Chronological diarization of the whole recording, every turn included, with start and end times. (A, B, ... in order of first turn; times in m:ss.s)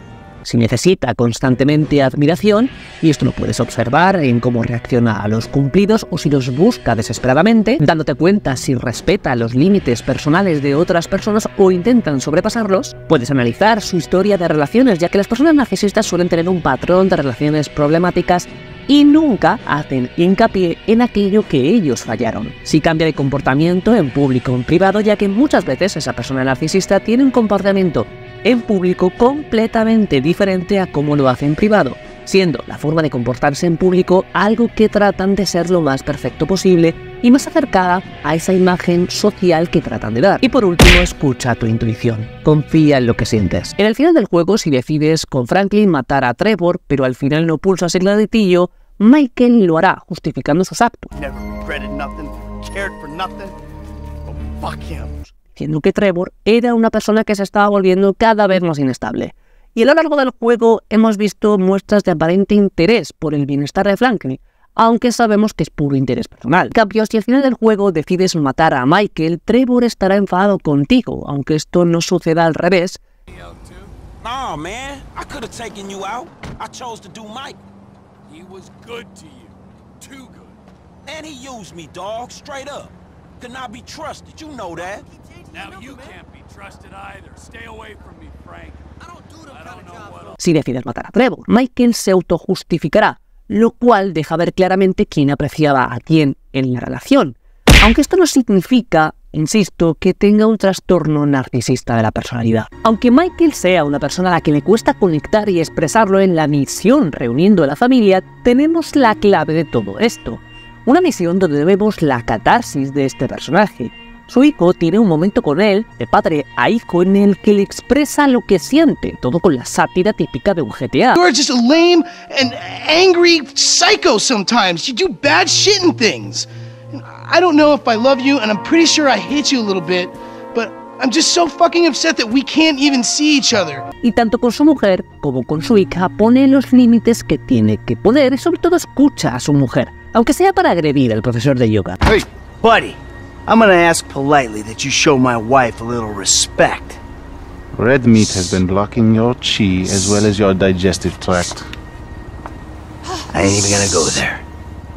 0:00.4-0:51.1 A
0:51.1-0:53.5 B
0:54.3-0:55.3 B
0:55.5-1:13.0 A
1:13.3-1:13.9 C
1:14.2-1:17.6 D
1:18.3-1:20.6 C
1:21.0-1:25.1 D
1:25.5-1:30.4 C
1:30.4-2:01.2 A
2:01.2-2:13.8 E
2:14.0-2:22.0 A
2:22.0-2:27.0 B
2:27.7-2:31.7 F
2:33.3-2:34.4 B